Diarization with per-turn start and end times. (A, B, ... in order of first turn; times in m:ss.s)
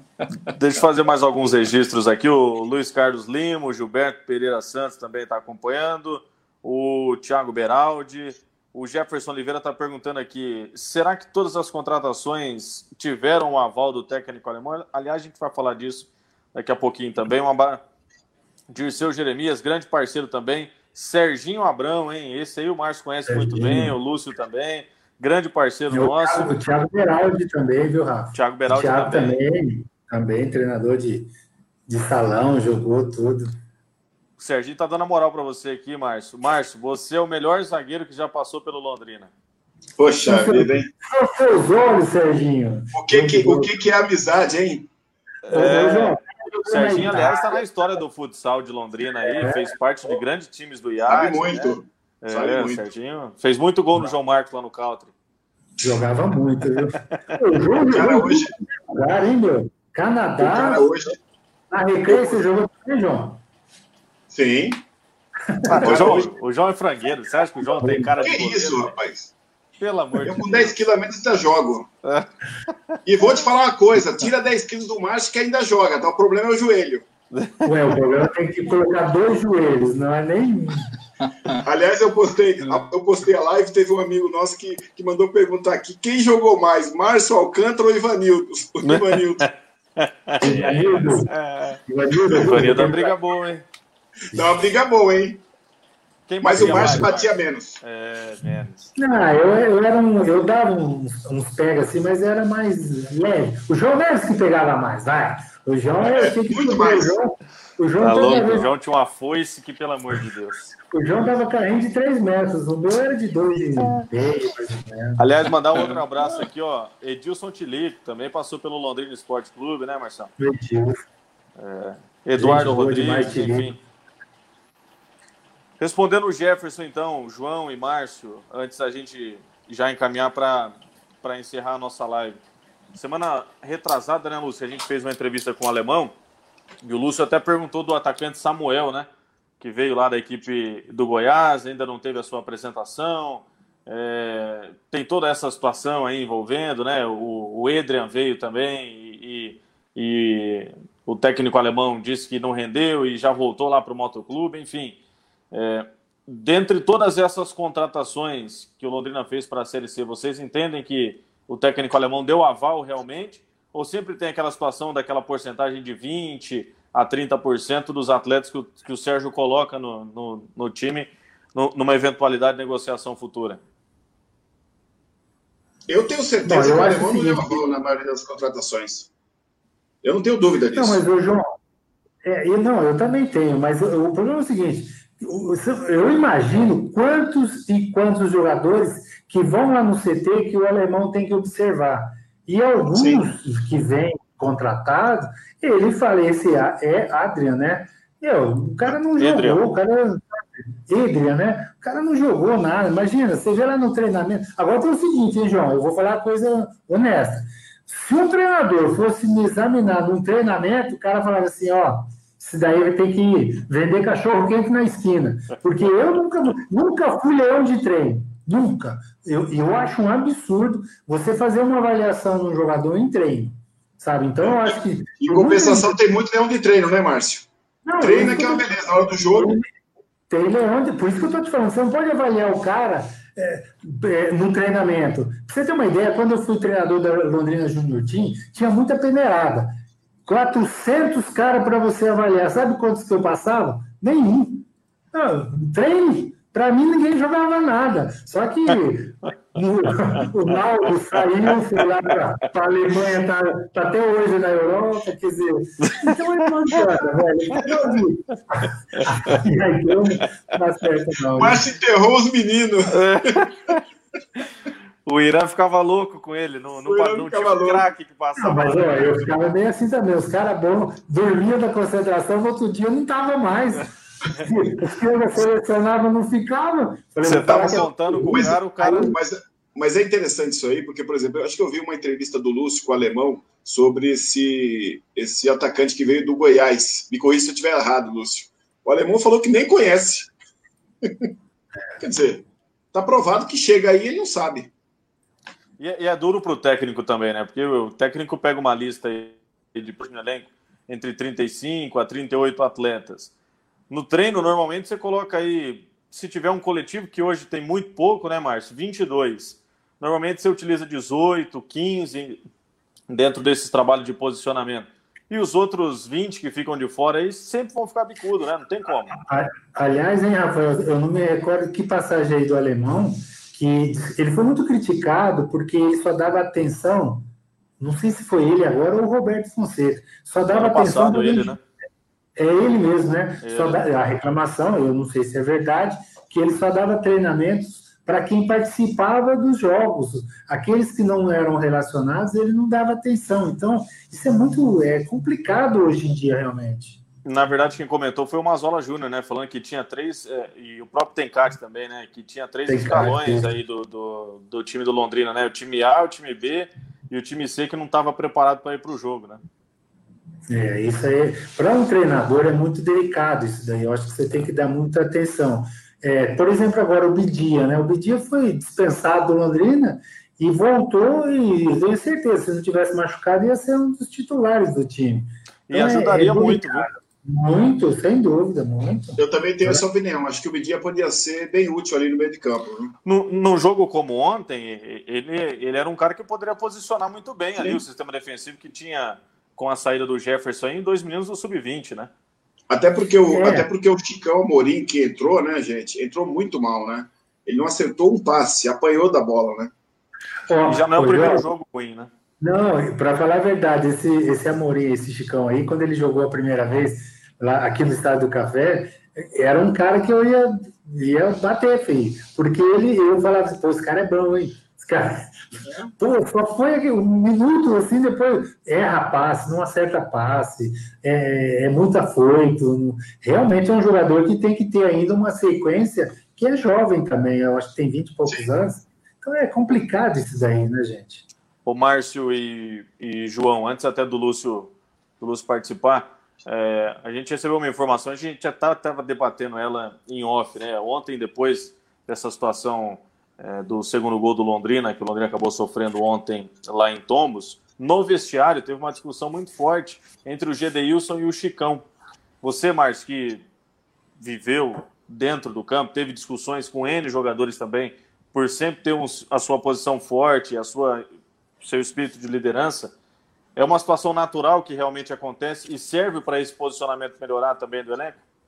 0:00.5-0:17.8 A
0:18.7-0:26.6 A
0:23.3-0:23.9 B
0:25.9-0:31.3 B
0:28.3-0:29.4 A
0:31.9-0:33.5 B
0:34.4-0:39.3 A
0:40.0-0:40.9 C
0:40.2-0:43.7 B
0:42.9-0:44.9 C
0:45.4-0:55.1 A
0:45.5-0:47.6 B
0:49.2-0:49.7 B
0:51.0-0:52.8 C
0:55.8-1:00.9 B
0:57.9-0:58.5 C
1:00.4-1:01.2 C
1:01.7-1:03.4 B
1:04.3-1:04.8 C
1:05.5-1:06.2 B
1:05.6-1:08.9 A
1:05.8-1:06.3 C
1:07.8-1:08.1 B
1:08.2-1:09.3 C
1:09.8-1:10.8 A
1:10.2-1:11.9 C
1:12.0-1:13.0 A
1:13.0-1:17.1 C
1:17.3-1:17.8 A
1:17.6-1:20.9 B
1:21.6-1:29.4 C
1:28.8-1:33.6 A
1:30.4-1:31.3 B
1:31.8-1:33.1 B
1:32.4-1:32.9 C
1:34.3-1:35.4 C
1:36.3-1:38.9 A
1:36.4-1:37.8 C
1:36.5-1:37.1 B
1:39.0-1:48.7 B
1:46.1-1:47.2 C
1:48.0-1:50.6 A
1:50.9-1:55.2 B
1:55.2-2:00.3 A
2:00.4-2:01.0 B
2:01.6-2:03.8 A
2:02.4-2:03.8 B
2:05.8-2:12.4 A
2:12.9-2:16.1 A
2:16.8-2:19.1 A
2:19.6-2:35.0 A
2:35.5-2:53.6 A
2:55.9-2:59.1 C
2:56.4-2:57.6 B
3:00.0-3:01.0 C
3:00.7-3:01.4 B
3:02.2-3:46.0 B
3:12.9-3:13.2 C
3:19.2-3:19.6 A
3:44.4-3:47.5 C
3:47.8-3:48.7 B
3:48.0-3:49.5 C
3:49.2-3:49.7 B
3:50.3-3:59.7 B
4:00.2-4:21.6 B
4:15.8-4:16.2 A
4:18.9-4:19.4 A
4:21.4-4:23.4 C
4:22.9-4:23.8 A
4:25.0-4:29.2 A
4:26.8-4:27.9 C
4:28.4-4:39.1 B
4:37.2-4:39.1 A
4:37.6-4:50.3 C
4:51.0-4:51.3 C
4:52.0-4:54.7 C
4:55.8-5:03.3 A
5:03.9-5:12.4 A
5:13.1-5:19.2 A
5:19.2-5:27.2 B
5:27.8-5:31.6 B
5:30.5-5:31.6 A
5:32.4-5:47.0 B
5:33.4-5:33.8 A
5:47.2-5:59.4 A
5:52.7-5:53.5 B
6:00.5-6:19.8 B
6:15.7-6:16.9 A
6:19.2-6:22.9 C
6:23.0-6:32.1 A
6:32.7-6:39.7 C
6:33.3-6:33.7 B
6:40.5-6:41.5 B
6:40.6-6:42.1 A
6:42.4-6:55.3 B
6:55.6-6:55.9 C
6:56.0-7:11.2 B
7:11.6-7:31.8 A
7:32.4-7:33.4 A
7:34.2-7:41.0 A
7:41.6-7:42.9 A
7:43.6-7:48.2 A